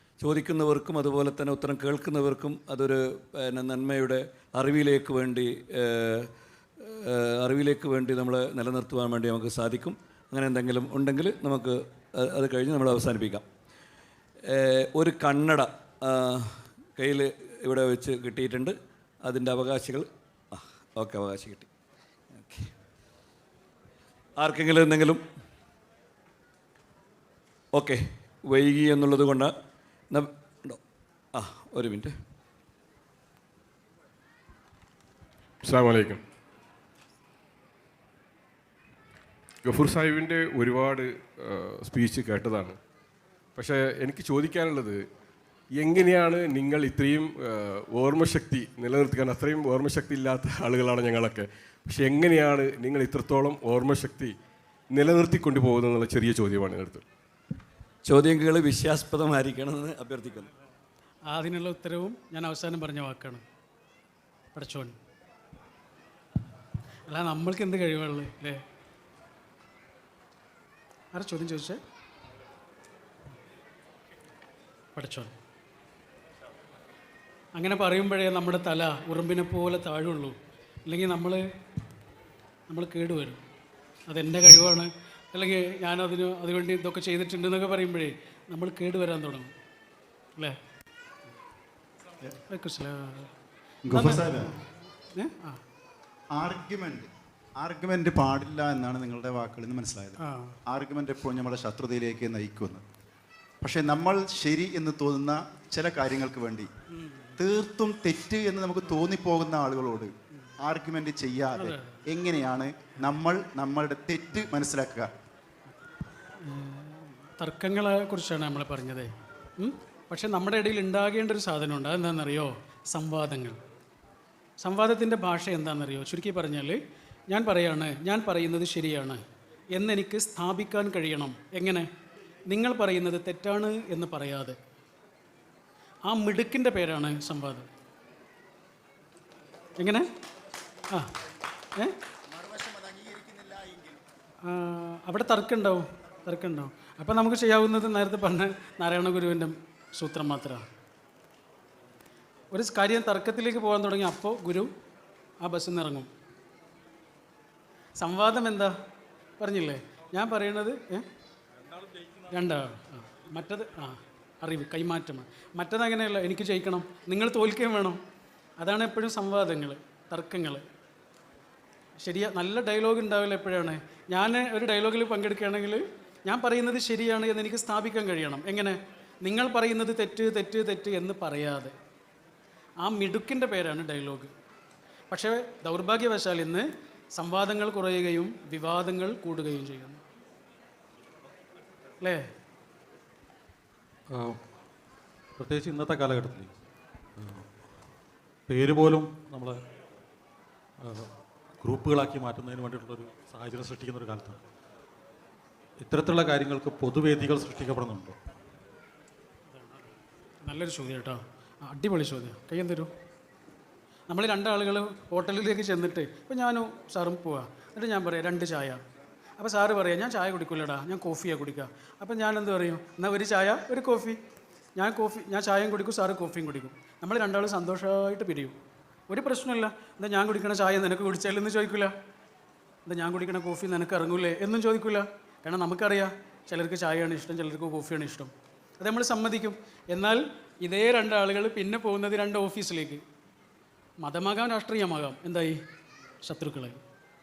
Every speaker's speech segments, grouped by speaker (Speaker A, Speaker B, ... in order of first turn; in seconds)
Speaker A: 0.2-6.3, 6.8-13.4, 14.5-21.7, 22.4-22.7, 24.4-25.2, 27.7-29.5, 30.1-30.8, 31.3-32.1, 58.0-60.5
Speaker B: 35.6-36.2, 39.6-42.8, 43.5-45.0, 45.8-54.3, 54.9-57.0
Speaker C: 61.3-63.4, 64.5-64.9, 67.1-68.6, 71.1-71.8, 74.9-75.3, 77.5-81.4, 82.7-83.4, 84.1-89.5, 92.3-93.3, 93.9-94.5, 95.1-95.6, 100.2-100.6, 106.9-107.4, 111.5-112.0, 116.4-123.6, 124.6-129.2, 129.7-131.9, 132.5-134.6, 136.1-137.7, 139.8-140.1, 144.4-150.7, 152.5-154.7, 155.4-156.1, 158.0-158.7, 159.4-161.1, 162.3-168.0, 168.6-170.6, 172.0-181.7, 182.8-184.3, 185.1-190.0, 192.0-192.2, 209.5-209.8, 210.4-212.9, 214.1-218.8, 219.4-224.2, 224.8-228.6, 229.1-231.9, 232.8-243.0, 244.0-245.6, 246.2-246.8
Speaker D: 93.8-94.5, 96.3-102.8, 103.6-106.7, 107.4-115.1
Speaker E: 194.1-194.4, 195.4-196.5, 197.2-197.4, 198.5-199.6, 200.8-204.4, 205.8-208.2